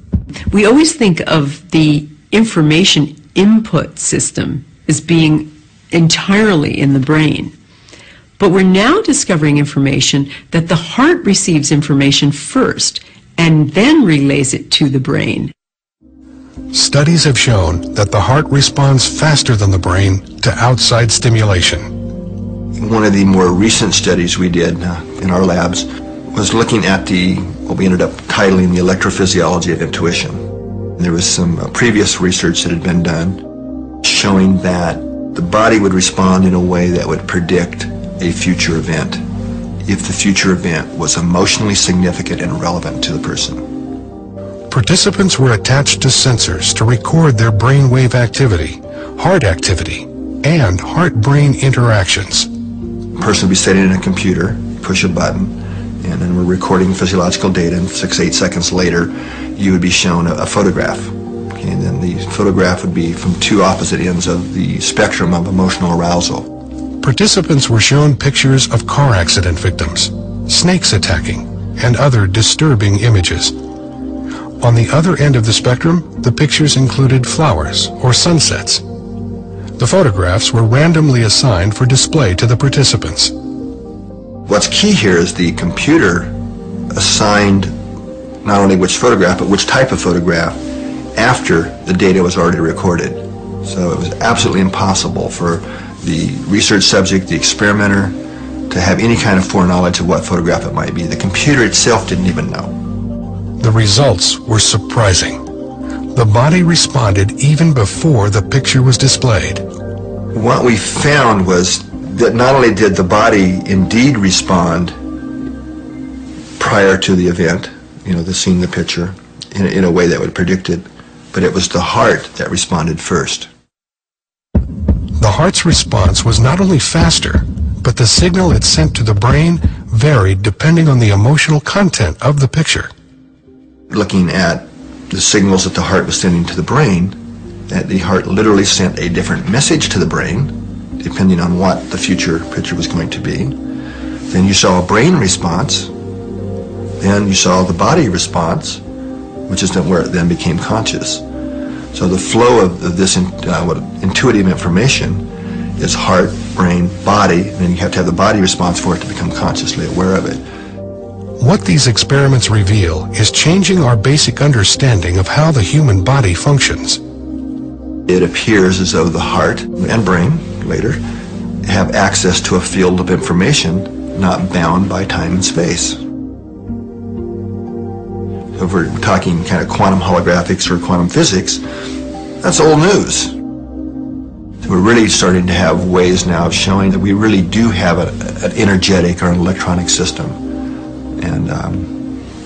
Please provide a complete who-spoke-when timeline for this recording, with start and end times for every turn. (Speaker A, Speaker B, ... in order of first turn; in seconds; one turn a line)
Speaker A: 0.5-7.5
Speaker A: 8.4-15.5
Speaker B: 16.7-21.9
Speaker C: 22.8-30.4
Speaker C: 31.0-33.4
Speaker C: 34.0-39.2
Speaker C: 39.8-43.6
Speaker B: 44.7-52.5
Speaker C: 53.1-66.5
Speaker B: 67.0-73.5
Speaker B: 74.6-78.8
Speaker B: 79.8-83.3
Speaker C: 84.5-86.3
Speaker C: 86.9-87.7
Speaker C: 88.4-90.6
Speaker C: 91.1-98.2
Speaker C: 98.7-102.7
Speaker B: 103.6-105.4
Speaker B: 106.1-109.6
Speaker C: 110.3-114.9
Speaker C: 116.6-123.5
Speaker B: 125.2-132.9
Speaker C: 133.9-137.2
Speaker C: 137.7-143.6
Speaker C: 144.3-145.9
Speaker C: 147.0-148.8
Speaker C: 149.5-151.2
Speaker C: 151.9-155.2
Speaker C: 155.8-160.4
Speaker B: 161.4-167.0
Speaker C: 168.1-171.0
Speaker C: 171.6-176.0
Speaker C: 178.5-181.6
Speaker C: 182.4-183.3
Speaker C: 184.6-190.4
Speaker C: 191.2-192.0